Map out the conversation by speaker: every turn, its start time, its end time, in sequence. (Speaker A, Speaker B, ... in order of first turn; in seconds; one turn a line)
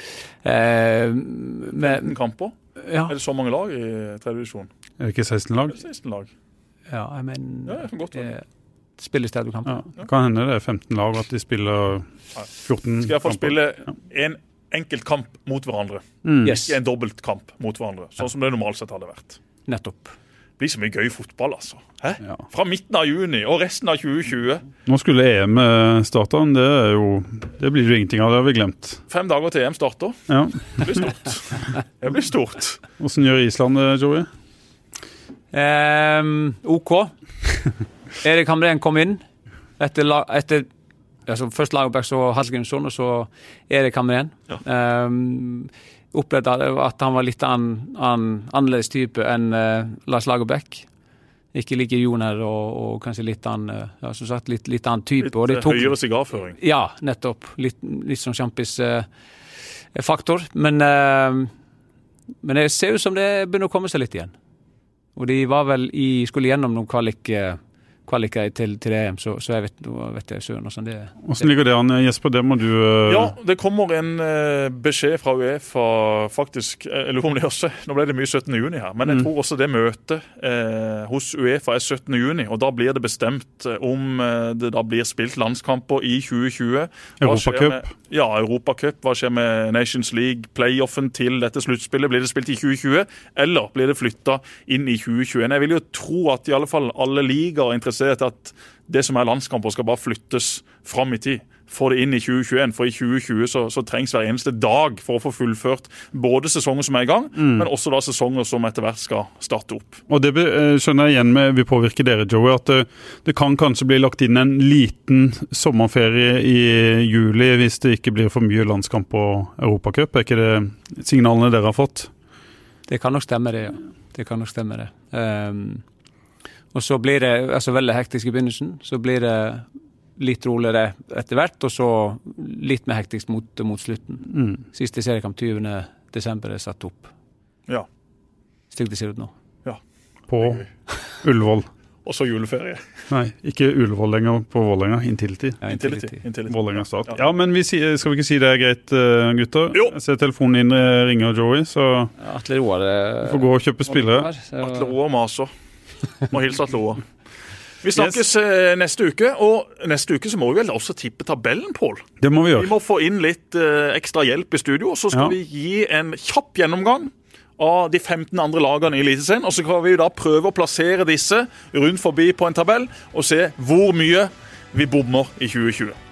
Speaker A: 0.4-2.1
Speaker B: 1.8-2.5
Speaker A: 2.8-3.1
Speaker B: 3.1-4.7
Speaker C: 5.0-5.8
Speaker B: 5.7-6.3
Speaker A: 6.9-8.4
Speaker B: 7.7-8.3
Speaker A: 9.0-9.8
Speaker C: 9.7-12.1
Speaker C: 12.6-13.5
Speaker B: 13.0-19.4
Speaker C: 16.2-16.6
Speaker A: 16.4-16.7
Speaker A: 19.6-20.1
Speaker B: 20.6-24.6
Speaker C: 24.9-29.0
Speaker B: 29.1-32.8
Speaker C: 30.3-31.0
Speaker C: 33.0-34.3
Speaker A: 35.5-37.1
Speaker A: 38.2-39.2
Speaker A: 39.8-40.7
Speaker A: 41.3-50.9
Speaker A: 51.5-55.9
Speaker B: 55.2-56.5
Speaker A: 56.6-59.1
Speaker A: 59.9-61.5
Speaker A: 62.4-64.3
Speaker A: 65.2-71.5
Speaker C: 71.2-73.3
Speaker B: 73.1-110.0
Speaker C: 87.2-87.9
Speaker C: 107.4-107.7
Speaker C: 110.1-122.1
Speaker A: 122.9-125.8
Speaker A: 126.7-129.7
Speaker A: 130.2-137.1
Speaker C: 134.3-134.6
Speaker A: 138.7-139.3
Speaker C: 140.3-141.7
Speaker B: 142.0-142.8
Speaker C: 143.1-145.6
Speaker A: 145.6-146.2
Speaker B: 145.6-147.2
Speaker C: 146.5-152.1
Speaker A: 152.2-154.9
Speaker C: 153.2-154.3
Speaker B: 154.6-155.5
Speaker B: 156.3-157.0
Speaker B: 157.8-176.0
Speaker C: 162.2-162.7